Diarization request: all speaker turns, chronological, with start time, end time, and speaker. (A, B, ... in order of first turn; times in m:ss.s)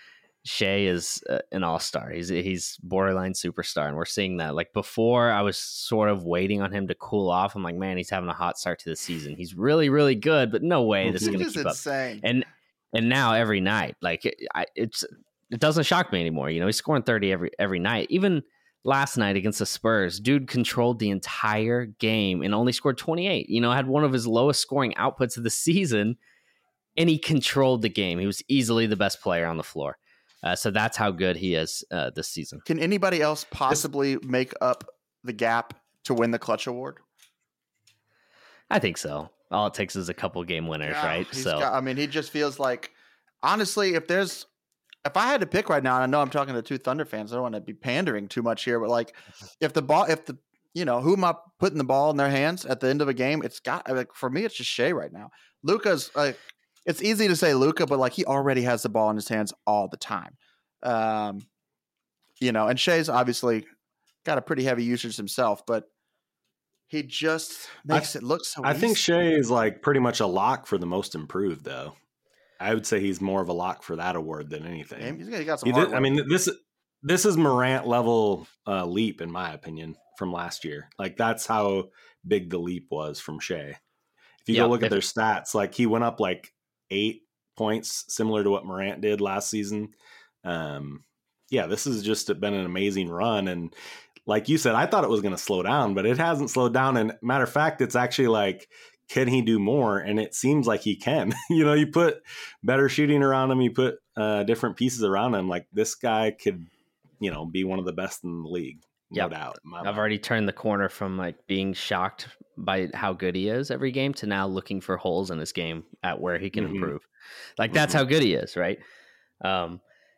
0:00.4-0:26.2 A
0:11.0-0:11.3 B
0:11.1-0:12.2 C
0:27.0-0:32.6 A
0:32.7-0:37.0 C
0:38.7-0:41.7 A
0:40.8-0:44.5 C
0:45.0-1:01.5 C
1:02.4-1:03.7 C
1:04.2-1:05.9 C
1:06.9-1:09.0 C
1:08.6-1:11.9 B
1:12.6-1:23.8 B
1:15.0-1:16.2 C
1:24.5-1:29.9 B
1:24.5-1:25.0 A
1:30.4-1:33.7 B
1:34.3-1:46.7 B
1:47.2-1:50.0 B
1:49.1-1:58.8 A
1:56.6-1:56.9 B
1:57.7-1:58.0 B
1:59.4-1:59.8 A